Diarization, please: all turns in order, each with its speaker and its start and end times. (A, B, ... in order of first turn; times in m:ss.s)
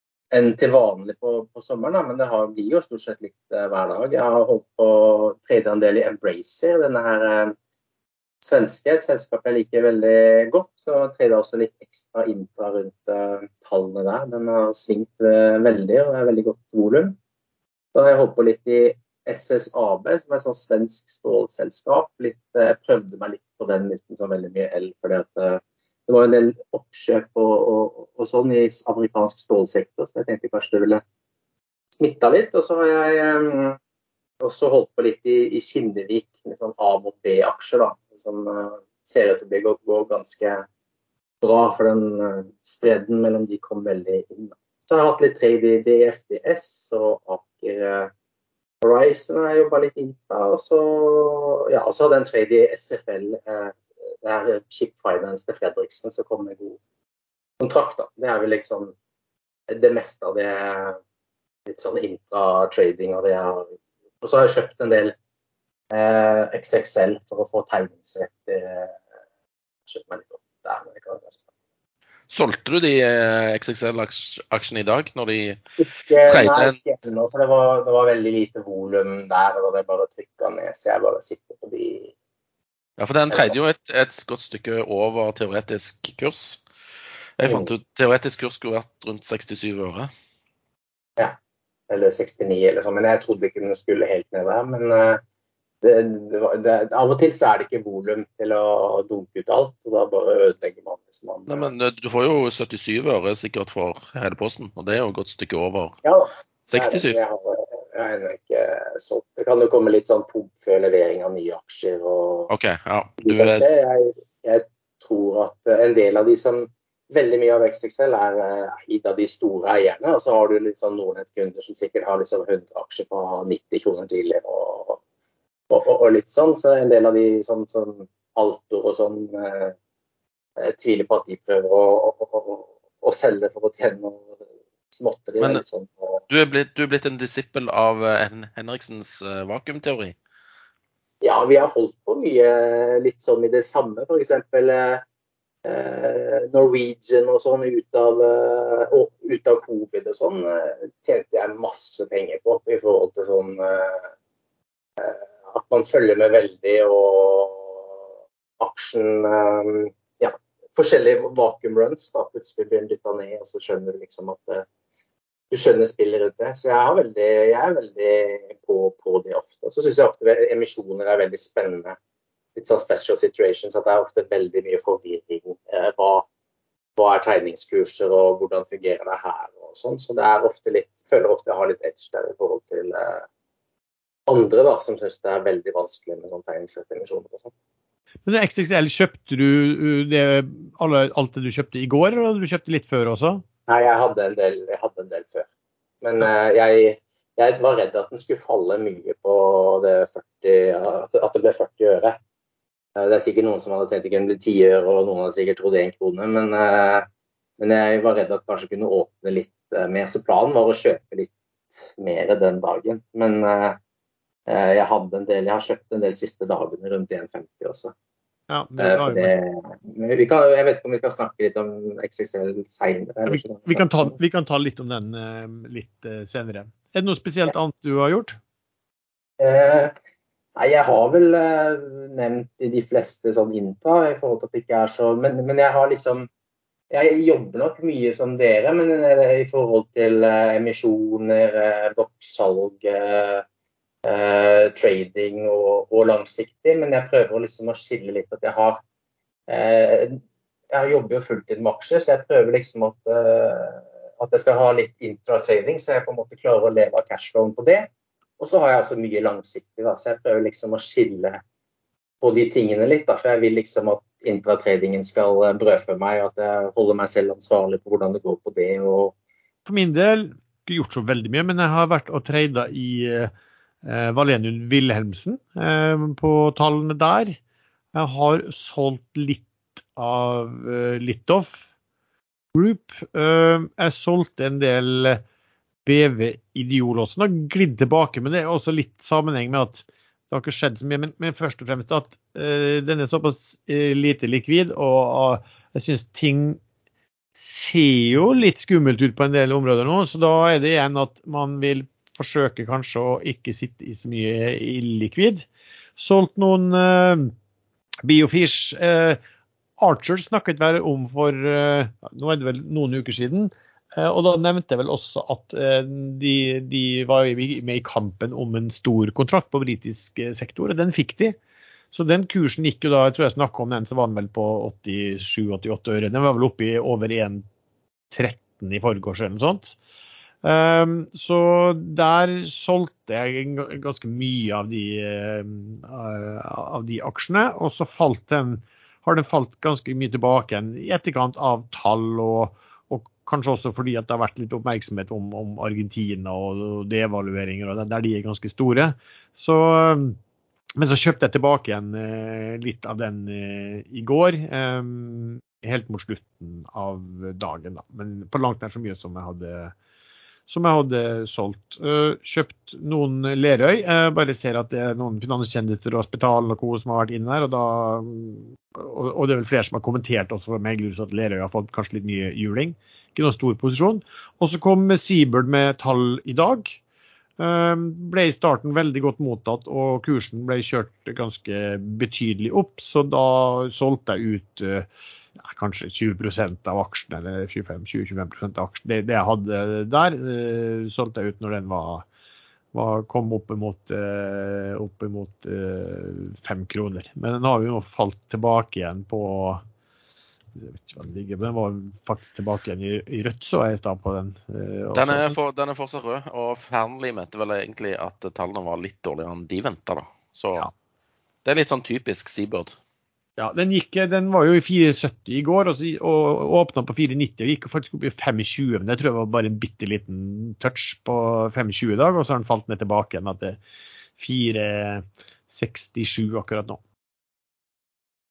0:00.3-0:07.5 A
0:08.4-0:17.2 A
0:17.9-0:31.0 A
0:31.9-0:33.8 A
0:34.4-0:40.6 A
0:41.4-0:48.1 A
0:48.8-0:56.8 A
0:57.6-0:58.9 A
0:59.7-1:01.0 A
1:01.6-1:05.1 A
1:05.9-1:09.0 A
1:09.8-1:11.4 A
1:12.3-1:15.6 B
1:15.8-1:22.1 A
1:16.2-1:16.8 B
1:23.0-1:26.6 B
1:23.3-1:23.6 A
1:27.4-1:30.1 B
1:27.4-1:27.7 A
1:31.9-1:35.2 A
1:35.8-1:41.7 A
1:41.5-1:46.0 B
1:46.0-1:52.5 A
1:46.7-1:47.2 B
1:52.5-1:53.6 B
1:53.2-2:05.0 A
2:05.7-2:09.7 A
2:10.6-2:14.4 A
2:14.9-2:16.2 A
2:16.3-2:20.2 B
2:21.2-2:25.0 A
2:25.6-2:34.1 A
2:35.0-2:37.9 A
2:38.6-2:44.6 A
2:45.5-2:52.0 A
2:52.6-2:56.3 A
2:57.0-3:03.2 A
3:04.3-3:07.5 A
3:08.2-3:13.4 C
3:13.7-3:15.5 A
3:16.0-3:22.2 A
3:23.0-3:27.0 A
3:27.6-3:33.8 A
3:34.5-3:37.9 A
3:38.5-3:39.3 C
3:38.8-3:44.2 A
3:43.2-3:48.4 C
3:49.4-3:49.9 A
3:50.6-3:56.3 A
3:56.9-4:03.4 A
4:04.0-4:08.8 A
4:09.5-4:10.2 A
4:10.7-4:17.9 A
4:18.4-4:21.4 A
4:22.2-4:29.1 A
4:29.6-4:33.3 C
4:33.8-4:37.4 C
4:37.9-4:41.6 C
4:42.5-4:45.2 C
4:45.8-4:56.6 C
4:57.3-5:07.3 C
5:08.0-5:09.2 C
5:09.8-5:21.4 C
5:21.9-5:27.4 C
5:28.1-5:29.8 C
5:30.4-5:50.2 C
5:50.8-5:59.7 C
6:00.5-6:16.8 C
6:17.4-6:32.0 C
6:32.7-6:39.6 C
6:40.5-6:45.3 C
6:44.9-6:50.7 B
6:51.4-6:52.8 B
6:53.4-7:03.6 C
7:04.2-7:06.8 C